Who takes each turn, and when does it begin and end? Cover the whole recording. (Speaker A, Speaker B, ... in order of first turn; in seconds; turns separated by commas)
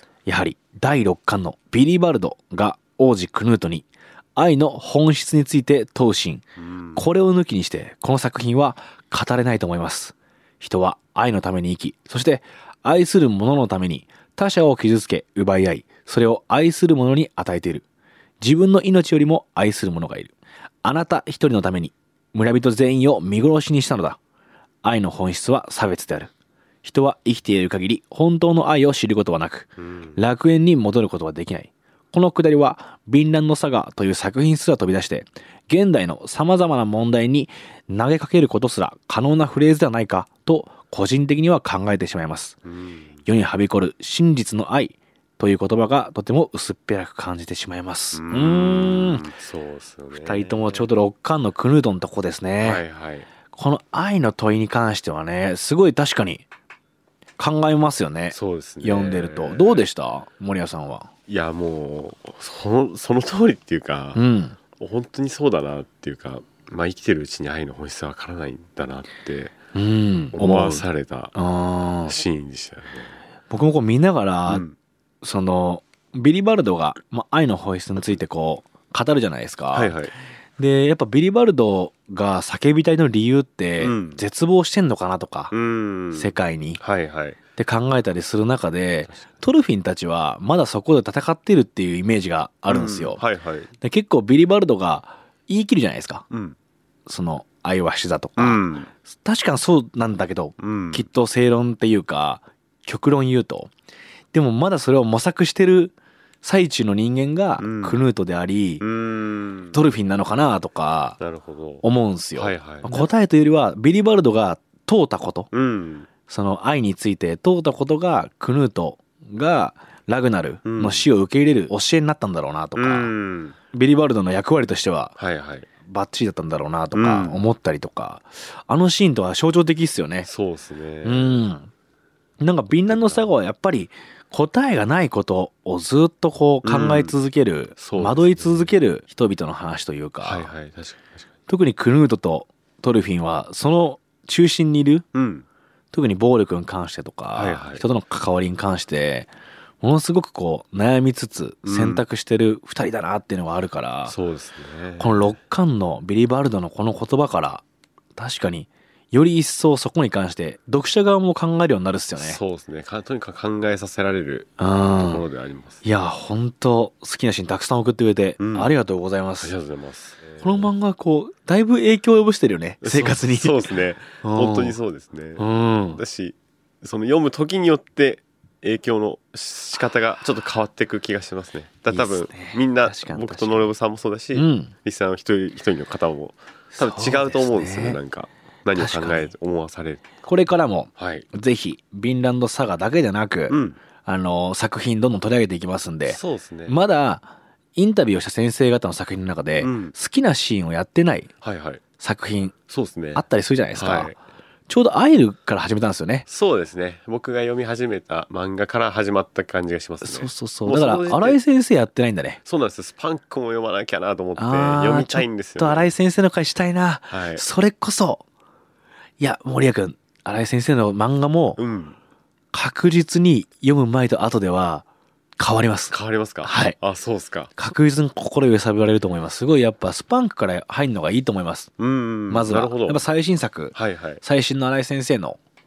Speaker A: 0.2-17.8, Speaker B: 6.6-7.0, Speaker A: 18.4-24.2, Speaker A: 24.8-26.3, Speaker A: 26.8-42.6, Speaker B: 29.8-30.2, Speaker B: 42.6-43.1, Speaker A: 43.2-49.2, Speaker B: 48.1-50.9, Speaker A: 50.1-52.8, Speaker B: 52.6-53.3, Speaker A: 53.5-56.4, Speaker A: 57.4-61.1, Speaker B: 58.3-59.9, Speaker B: 61.3-64.2, Speaker A: 64.1-64.5, Speaker B: 64.8-69.5, Speaker A: 69.7-72.1, Speaker B: 70.3-71.3, Speaker B: 72.0-73.1, Speaker A: 73.5-74.6, Speaker B: 74.5-74.8, Speaker A: 75.2-80.0, Speaker B: 79.7-80.1, Speaker A: 80.6-85.5, Speaker B: 83.8-84.2, Speaker B: 85.5-87.4, Speaker A: 86.1-86.8, Speaker A: 87.5-93.2, Speaker B: 92.7-93.7, Speaker A: 93.8-96.2, Speaker B: 96.3-96.6, Speaker A: 97.1-103.7, Speaker B: 98.4-98.9, Speaker B: 100.6-101.1, Speaker A: 104.3-108.8, Speaker B: 107.6-108.0, Speaker B: 108.8-109.8, Speaker A: 109.7-111.2, Speaker B: 111.2-111.8, Speaker A: 111.8-115.5, Speaker B: 112.3-113.1, Speaker B: 115.5-116.1, Speaker A: 116.3-123.1, Speaker B: 120.6-121.1, Speaker B: 122.8-123.5, Speaker A: 123.7-125.1, Speaker B: 125.2-125.7, Speaker A: 125.8-130.3, Speaker B: 126.9-127.4, Speaker B: 130.2-131.5, Speaker A: 131.0-131.7, Speaker A: 132.4-140.5, Speaker B: 132.9-133.3, Speaker B: 136.6-137.2, Speaker B: 137.8-138.7, Speaker B: 140.2-141.2, Speaker A: 141.5-145.1, Speaker B: 145.1-145.4, Speaker A: 145.9-149.3, Speaker B: 147.3-147.8, Speaker A: 149.8-154.1, Speaker B: 151.6-152.0, Speaker B: 154.1-155.3, Speaker A: 155.0-157.6, Speaker A: 158.1-162.4, Speaker B: 162.2-165.8, Speaker A: 164.6-165.2, Speaker A: 165.8-169.5, Speaker B: 168.4-168.7, Speaker B: 169.4-170.7, Speaker A: 170.4-173.6, Speaker B: 172.8-190.1, Speaker A: 174.2-174.8, Speaker A: 175.4-176.0, Speaker A: 181.9-183.7, Speaker A: 184.3-184.7, Speaker A: 186.8-188.0, Speaker A: 188.8-189.3, Speaker A: 190.2-201.3, Speaker B: 191.0-191.3, Speaker B: 193.5-193.8, Speaker B: 196.1-196.8, Speaker B: 199.6-199.9, Speaker B: 201.4-201.8, Speaker A: 202.0-202.6, Speaker B: 202.7-203.2, Speaker A: 203.1-204.1, Speaker B: 203.8-204.1, Speaker A: 204.7-206.2, Speaker B: 206.3-211.4, Speaker A: 210.0-212.4, Speaker B: 212.4-215.9, Speaker A: 214.4-218.2, Speaker B: 217.1-217.4, Speaker A: 219.2-221.6, Speaker B: 221.6-222.0, Speaker A: 222.5-224.8, Speaker A: 225.4-226.8, Speaker B: 225.9-227.5, Speaker A: 227.5-231.7, Speaker B: 231.8-233.0, Speaker A: 232.3-235.4, Speaker B: 233.7-234.2